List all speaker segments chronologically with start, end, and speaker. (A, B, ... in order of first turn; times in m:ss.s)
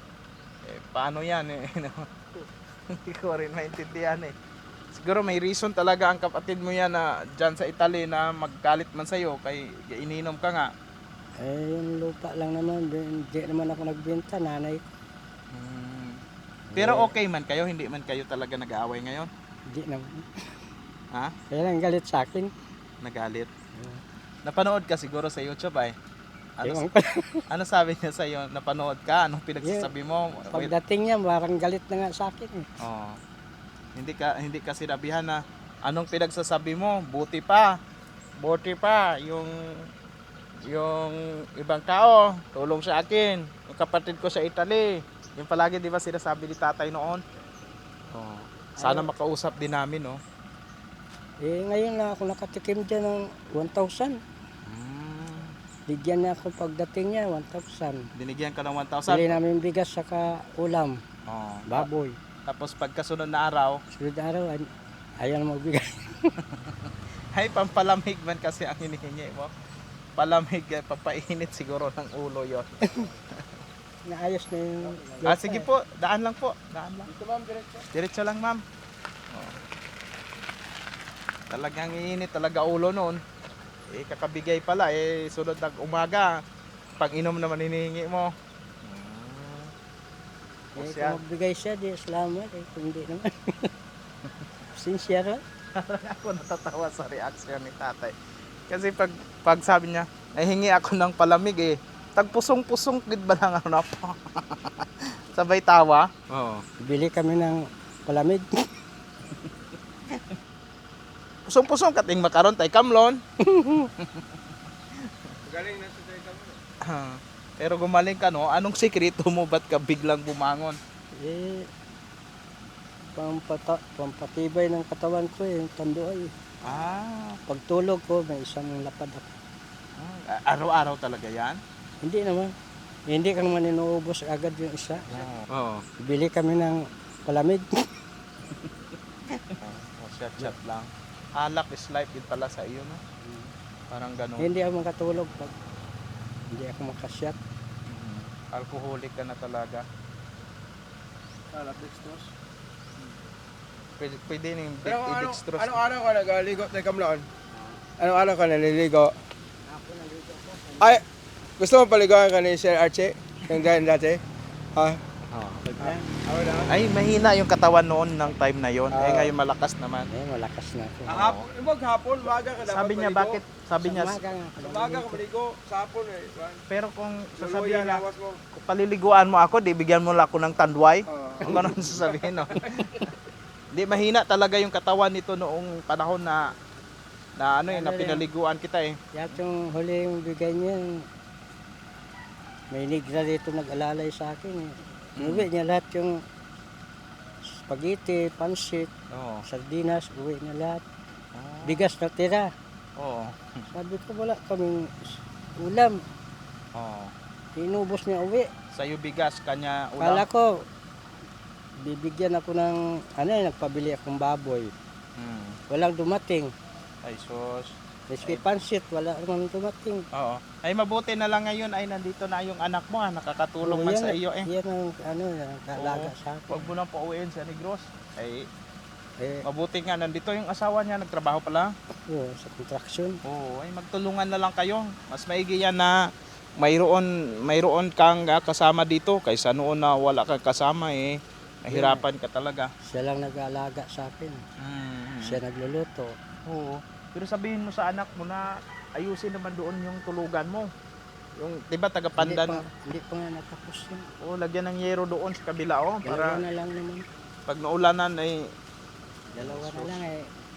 0:00.7-0:02.2 A
0:02.9-0:04.3 A
0:04.9-0:10.7 A
0:11.4-0:14.8 B
0:15.5-0:16.2 A
0:16.7-0:17.1 B
0:16.8-0:19.3 A
0:19.7-0:20.3 B
0:21.5-0:22.5 B
0:23.0-0:23.5 A
0:23.8-0:24.0 B
0:24.4-0:26.0 A
0:26.6-0:26.9 A
0:26.6-0:27.4 B
0:27.5-0:30.7 A
0:29.6-0:29.9 B
0:30.5-0:32.7 B
0:32.8-0:33.2 A
0:34.0-0:37.7 A
0:38.4-0:39.5 A
0:40.7-0:47.2 A
0:48.1-0:50.2 A
0:48.8-0:49.1 B
0:51.4-0:54.2 B
0:54.7-0:55.5 A
0:55.9-0:58.0 B
0:58.2-0:59.4 A
0:59.1-1:01.0 B
1:01.3-1:01.9 A
1:01.7-1:02.2 B
1:02.5-1:03.8 A
1:03.9-1:04.7 B
1:05.2-1:06.3 B
1:07.4-1:09.5 A
1:10.2-1:12.8 A
1:14.1-1:15.7 B
1:14.9-1:15.2 C
1:15.3-1:17.1 A
1:17.1-1:17.9 C
1:17.9-1:18.6 A
1:21.5-1:23.2 A
1:23.9-1:26.3 A
1:27.0-1:28.3 A
1:28.8-1:29.7 A
1:30.8-1:31.2 A
1:30.8-1:33.7 B
1:34.7-1:35.4 B
1:35.8-1:38.1 A
1:38.7-1:46.6 A
1:46.8-1:48.5 B
1:51.5-1:53.2 A
1:53.4-1:53.9 B
1:55.4-1:56.6 C
1:56.9-2:00.8 A
2:01.2-2:01.7 B
2:03.2-2:06.3 B
2:06.7-2:07.4 A
2:07.5-2:09.3 B
2:10.0-2:11.6 A
2:12.0-2:12.5 B
2:13.1-2:15.2 B
2:15.2-2:15.8 A
2:16.0-2:17.7 B
2:19.5-2:23.0 A
2:23.2-2:23.5 B
2:23.9-2:24.5 A
2:24.4-2:25.5 B
2:26.5-2:27.4 B
2:27.9-2:29.8 A
2:31.5-2:32.3 C
2:34.0-2:35.8 A
2:34.8-2:37.3 C
2:38.0-2:39.1 C
2:39.7-2:41.0 B
2:41.6-2:44.2 C
2:44.8-2:45.0 C
2:45.3-2:45.7 A
2:45.7-2:46.0 B
2:45.8-2:46.8 C
2:46.7-2:50.1 A
2:48.9-2:49.3 C
2:50.1-2:51.2 B
2:51.1-2:53.4 C
2:51.1-2:51.4 A
2:52.7-2:54.2 A
2:53.8-2:55.2 B
2:54.6-2:56.6 C
2:56.7-3:02.6 A
2:57.4-2:58.4 C
3:01.1-3:03.1 C
3:01.5-3:01.8 B
3:03.7-3:06.4 A
3:07.4-3:09.4 A
3:07.7-3:08.2 B
3:09.1-3:11.0 B
3:12.7-3:16.2 B
3:15.2-3:15.5 A
3:17.6-3:18.9 B
3:19.1-3:19.4 A
3:19.5-3:20.8 B
3:21.4-3:21.9 A
3:21.6-3:22.5 B
3:23.0-3:23.6 A
3:23.7-3:26.0 B
3:26.8-3:27.1 A
3:27.6-3:28.5 B
3:28.7-3:30.2 A
3:30.0-3:30.5 B
3:31.8-3:34.7 B
3:35.2-3:35.6 A
3:35.7-3:36.5 B
3:37.0-3:38.4 A
3:38.1-3:40.0 B
3:40.2-3:44.4 A
3:43.6-3:46.7 B
3:45.8-3:48.4 A
3:49.5-3:51.7 A
3:52.1-3:53.2 B
3:53.3-3:55.9 A
3:56.6-4:01.2 A
4:01.7-4:02.7 A
4:01.7-4:02.0 B
4:02.9-4:04.4 B
4:04.6-4:05.4 A
4:05.2-4:06.1 B
4:06.5-4:08.4 A
4:09.0-4:10.7 A
4:11.4-4:12.6 A
4:12.2-4:14.0 B
4:14.2-4:16.3 A
4:16.0-4:17.0 B
4:17.5-4:18.4 A
4:19.4-4:19.9 A
4:19.4-4:20.3 B